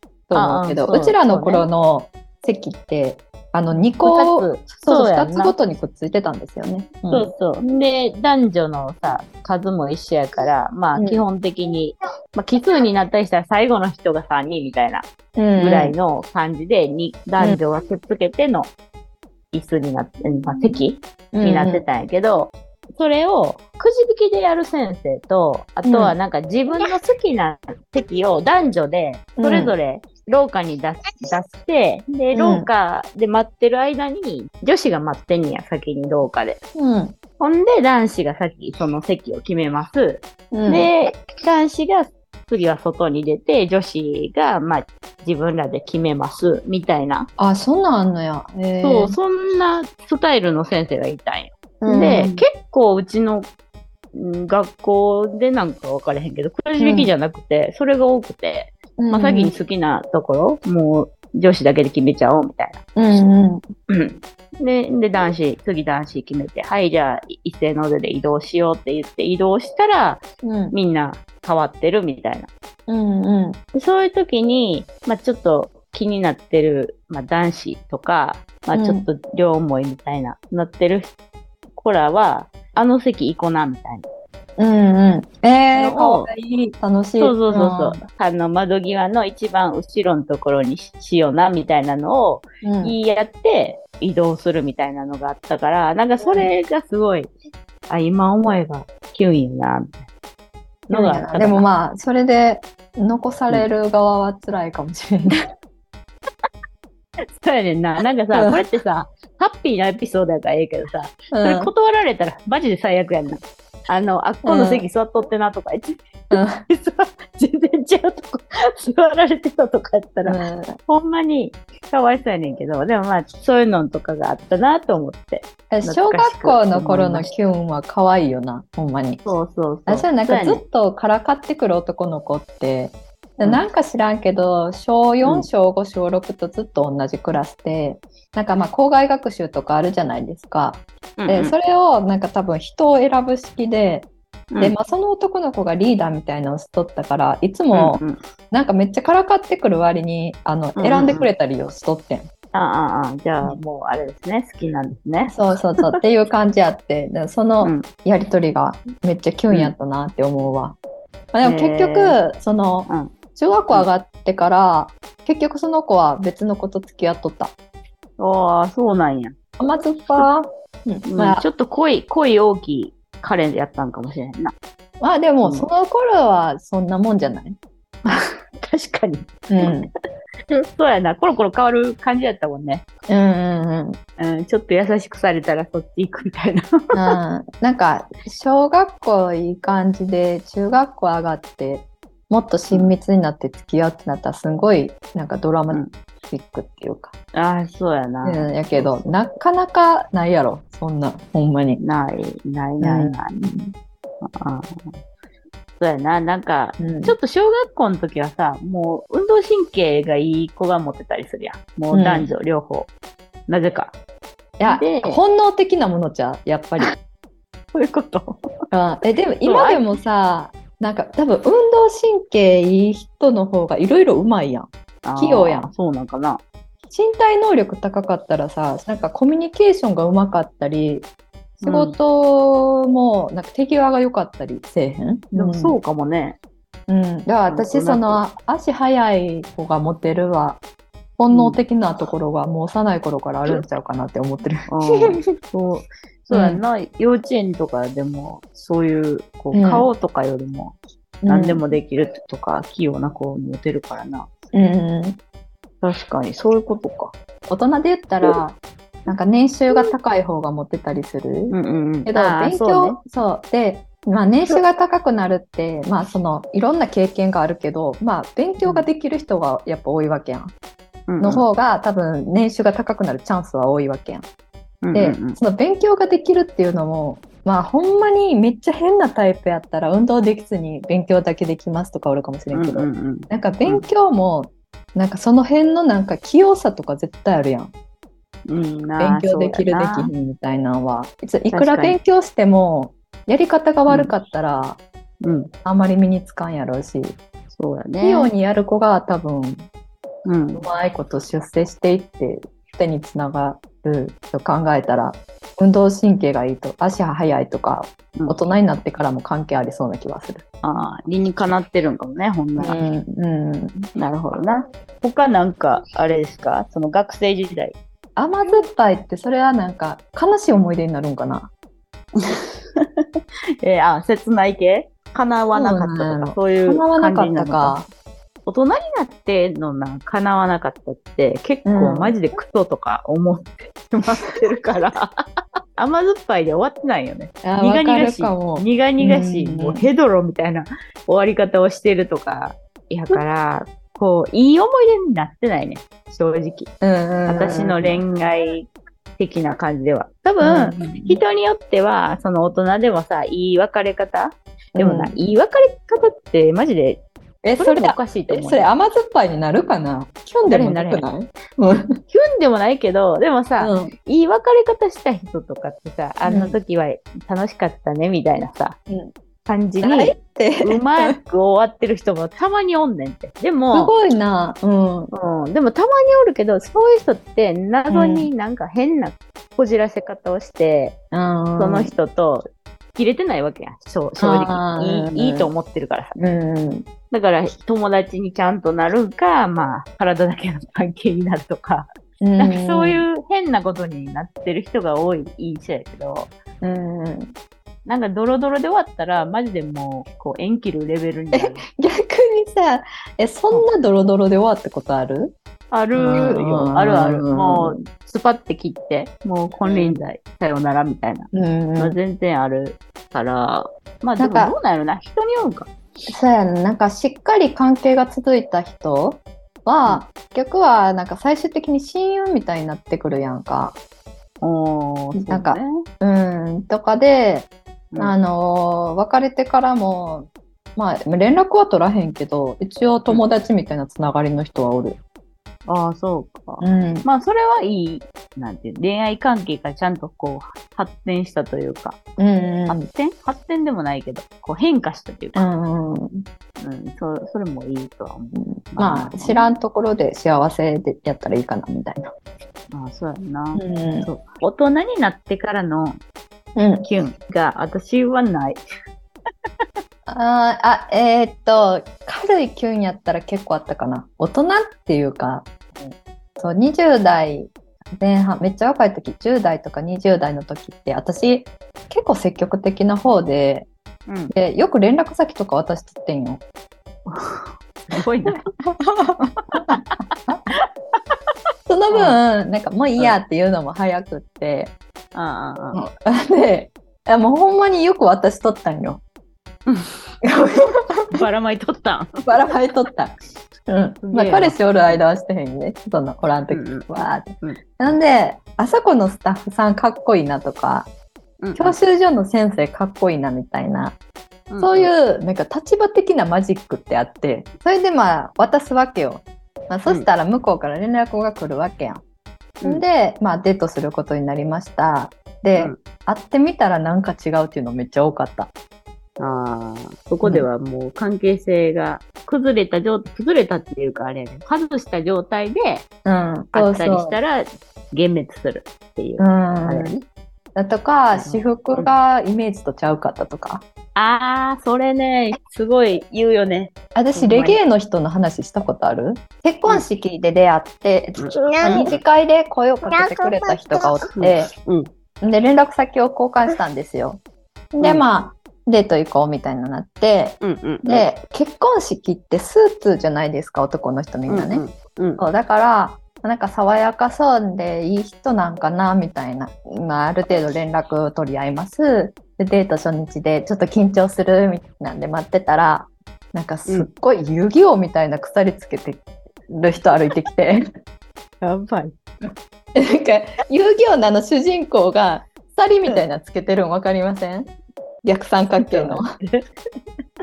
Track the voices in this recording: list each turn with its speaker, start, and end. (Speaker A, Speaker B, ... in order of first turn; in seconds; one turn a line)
Speaker A: 0.3-7.3
Speaker B: 0.3-1.7
Speaker B: 4.0-5.5
Speaker B: 7.1-18.7
Speaker A: 10.9-11.2
Speaker A: 15.3-15.9
Speaker B: 19.5-36.6
Speaker A: 21.3-21.8
Speaker A: 25.8-26.1
Speaker A: 29.4-29.7
Speaker A: 32.3-32.7
Speaker A: 36.8-37.1
Speaker B: 37.4-47.3
Speaker A: 40.5-40.9
Speaker A: 47.4-49.1
Speaker B: 48.8-53.5
Speaker A: 51.8-52.4
Speaker B: 54.1-62.8
Speaker A: 56.8-57.1
Speaker A: 59.0-59.5
Speaker A: 63.0-63.6
Speaker B: 63.9-72.5
Speaker A: 70.4-70.7
Speaker A: 72.9-73.6
Speaker B: 73.7-81.1
Speaker A: 78.7-79.1
Speaker B: 81.7-84.0
Speaker A: 84.6-88.0
Speaker B: 85.7-86.3
Speaker B: 87.2-97.3
Speaker A: 92.6-93.0
Speaker A: 96.2-96.5
Speaker B: 97.9-100.0
Speaker B: 100.9-101.7
Speaker A: 100.9-105.3
Speaker B: 107.3-127.3
Speaker A: 111.3-111.7
Speaker A: 114.4-114.8
Speaker A: 116.3-116.6
Speaker A: 120.2-120.8
Speaker A: 125.7-129.2
Speaker B: 129.2-130.6
Speaker A: 129.9-144.1
Speaker B: 141.2-141.5
Speaker A: 144.6-152.3
Speaker B: 147.7-148.2
Speaker B: 150.8-151.3
Speaker B: 152.5-155.4
Speaker A: 155.3-160.8
Speaker B: 157.6-157.9
Speaker A: 161.3-167.5
Speaker B: 161.4-162.2
Speaker B: 162.9-163.1
Speaker B: 168.2-169.3
Speaker A: 169.6-171.4
Speaker B: 171.1-174.5
Speaker A: 175.0-177.6
Speaker B: 175.4-175.7
Speaker B: 178.0-179.8
Speaker A: 179.5-179.9
Speaker B: 180.5-182.8
Speaker A: 183.1-184.0
Speaker B: 184.2-187.2
Speaker A: 186.9-197.1
Speaker B: 197.3-199.1
Speaker A: 198.2-201.8
Speaker B: 201.8-203.4
Speaker A: 202.8-203.7
Speaker B: 204.2-204.8
Speaker B: 205.8-212.9
Speaker A: 206.8-207.2
Speaker A: 211.9-212.3
Speaker B: 213.5-213.9
Speaker A: 214.6-216.9
Speaker B: 214.7-215.2
Speaker B: 217.7-218.4
Speaker A: 218.7-225.7
Speaker B: 219.4-219.9
Speaker B: 225.0-226.4
Speaker A: 226.9-231.1
Speaker B: 231.6-232.0
Speaker A: 231.6-235.8
Speaker B: 235.3-236.4
Speaker A: 236.9-240.6
Speaker B: 237.5-238.2
Speaker A: 241.2-245.2
Speaker B: 241.3-241.6
Speaker B: 244.7-254.3
Speaker A: 246.3-246.6
Speaker A: 249.5-249.9
Speaker A: 251.2-251.6
Speaker A: 254.5-255.2
Speaker B: 255.8-257.1
Speaker A: 257.5-261.5
Speaker B: 261.5-263.0
Speaker A: 262.1-270.5
Speaker B: 271.1-271.4
Speaker A: 271.2-274.3
Speaker B: 274.8-275.4
Speaker A: 274.9-287.7
Speaker B: 282.5-283.8
Speaker B: 288.5-290.1
Speaker A: 289.0-294.8
Speaker B: 291.5-292.0
Speaker B: 293.9-294.1
Speaker B: 295.2-295.5
Speaker A: 295.6-297.2
Speaker B: 297.5-298.3
Speaker A: 298.0-299.7
Speaker B: 300.2-300.6
Speaker A: 300.5-310.4
Speaker B: 310.6-312.8
Speaker A: 312.6-313.9
Speaker B: 313.9-317.8
Speaker A: 318.1-321.5
Speaker B: 322.2-323.0
Speaker B: 323.6-327.8
Speaker A: 325.5-327.9
Speaker B: 328.4-335.2
Speaker A: 331.6-332.1
Speaker B: 335.8-346.7
Speaker A: 337.4-339.9
Speaker A: 346.8-348.0
Speaker B: 347.2-357.0
Speaker A: 350.4-351.2
Speaker A: 354.8-355.1
Speaker A: 357.4-361.9
Speaker B: 357.6-358.7
Speaker B: 360.4-361.1
Speaker B: 362.1-368.8
Speaker A: 363.6-363.9
Speaker A: 366.2-366.6
Speaker B: 369.4-373.9
Speaker A: 369.8-371.1
Speaker A: 373.7-375.1
Speaker B: 375.1-381.0
Speaker A: 377.9-378.3
Speaker A: 381.1-381.9
Speaker B: 381.6-386.2
Speaker A: 384.2-385.5
Speaker A: 386.2-386.9
Speaker B: 387.1-396.3
Speaker A: 392.2-393.1
Speaker A: 396.6-397.3
Speaker B: 397.9-401.6
Speaker A: 401.3-405.3
Speaker B: 405.7-415.7
Speaker A: 405.9-407.8
Speaker A: 409.6-410.0
Speaker A: 411.3-411.9
Speaker A: 414.2-414.5
Speaker A: 416.1-423.8
Speaker B: 424.4-425.7
Speaker A: 425.1-435.0
Speaker B: 435.7-442.0
Speaker A: 436.6-437.1
Speaker A: 442.2-442.9
Speaker B: 442.7-445.4
Speaker A: 445.3-446.2
Speaker B: 446.6-449.4
Speaker A: 448.3-452.1
Speaker B: 452.7-456.0
Speaker A: 453.6-454.1
Speaker A: 456.6-456.9
Speaker B: 456.8-458.6
Speaker A: 460.1-473.7
Speaker B: 474.1-474.3
Speaker A: 474.3-476.4
Speaker B: 477.1-478.5
Speaker A: 478.8-479.8
Speaker B: 479.5-480.6
Speaker A: 481.7-484.7
Speaker B: 481.9-482.2
Speaker B: 485.1-485.8
Speaker A: 485.7-489.0
Speaker B: 489.7-489.9
Speaker A: 490.2-491.2
Speaker B: 491.1-492.4
Speaker A: 492.2-493.1
Speaker A: 493.7-500.9
Speaker B: 494.0-495.0
Speaker B: 496.5-497.6
Speaker B: 501.4-501.8
Speaker A: 501.5-504.0
Speaker B: 504.5-504.9
Speaker A: 504.6-512.0
Speaker A: 512.6-518.5
Speaker B: 519.2-525.9
Speaker A: 526.0-527.1
Speaker B: 526.5-530.0
Speaker A: 529.2-530.0
Speaker A: 530.5-533.6
Speaker B: 531.1-531.9
Speaker B: 533.9-537.6
Speaker A: 536.9-544.5
Speaker B: 541.2-542.0
Speaker B: 544.1-544.9
Speaker A: 545.2-547.2
Speaker A: 547.7-554.6
Speaker B: 550.4-551.0
Speaker B: 554.3-555.2
Speaker A: 555.2-570.6
Speaker B: 571.4-572.0
Speaker A: 572.7-577.5
Speaker A: 578.0-579.1
Speaker B: 578.6-579.5